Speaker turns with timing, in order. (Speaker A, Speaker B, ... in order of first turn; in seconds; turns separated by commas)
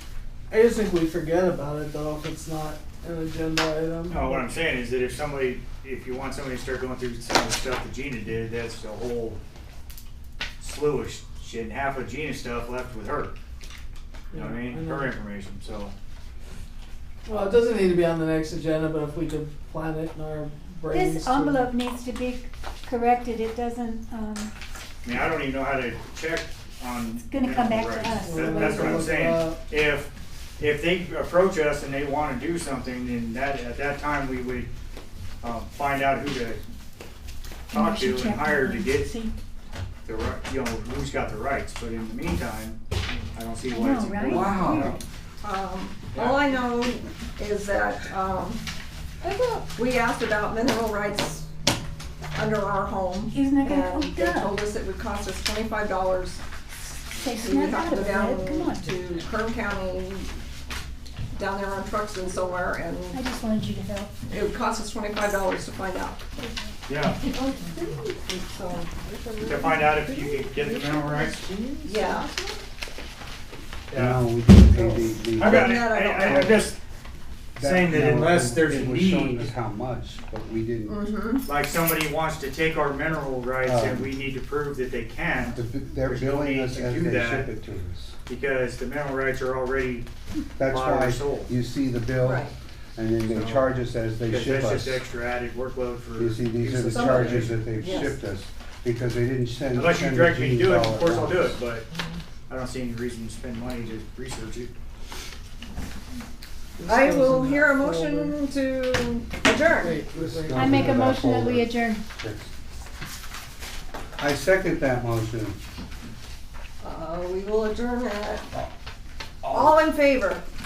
Speaker A: 0.5-4.4, Speaker B: 4.1-9.4, Speaker B: 10.6-13.3, Speaker A: 14.3-15.1, Speaker B: 14.3-15.9, Speaker A: 17.2-21.6, Speaker C: 20.9-24.5, Speaker B: 25.0-34.7, Speaker C: 27.3-28.8, Speaker A: 28.2-29.6, Speaker B: 35.4-36.6, Speaker B: 37.7-39.1, Speaker C: 37.7-39.3, Speaker B: 40.0-42.8, Speaker B: 43.3-45.0, Speaker C: 43.7-45.0, Speaker D: 44.2-45.0, Speaker E: 45.4-48.6, Speaker B: 46.1-46.6, Speaker E: 49.2-51.5, Speaker E: 52.3-56.4, Speaker C: 53.3-54.6, Speaker C: 57.1-59.0, Speaker E: 57.3-60.3, Speaker E: 61.3-63.2, Speaker C: 63.1-64.2, Speaker E: 64.3-66.4, Speaker B: 66.9-67.2, Speaker E: 67.2-70.0, Speaker B: 69.4-71.4, Speaker A: 70.1-72.2, Speaker E: 71.8-72.6, Speaker B: 73.9-74.2, Speaker D: 73.9-76.7, Speaker E: 74.7-76.7, Speaker B: 75.4-76.8, Speaker D: 77.6-81.0, Speaker B: 77.6-79.5, Speaker E: 80.9-81.5, Speaker B: 81.5-87.5, Speaker D: 83.6-84.1, Speaker D: 85.5-88.2, Speaker B: 88.2-90.1, Speaker D: 90.6-95.0, Speaker B: 90.6-91.5, Speaker E: 92.2-92.5, Speaker B: 93.3-93.7, Speaker B: 94.2-97.9, Speaker D: 96.2-101.6, Speaker E: 96.9-98.2, Speaker B: 99.7-101.9, Speaker B: 102.5-104.7, Speaker A: 106.8-108.4, Speaker E: 106.9-110.0, Speaker A: 109.8-111.1, Speaker D: 110.1-112.5, Speaker C: 110.5-112.0, Speaker D: 114.2-115.6, Speaker E: 116.8-118.5, Speaker E: 119.4-120.4, Speaker D: 119.4-119.7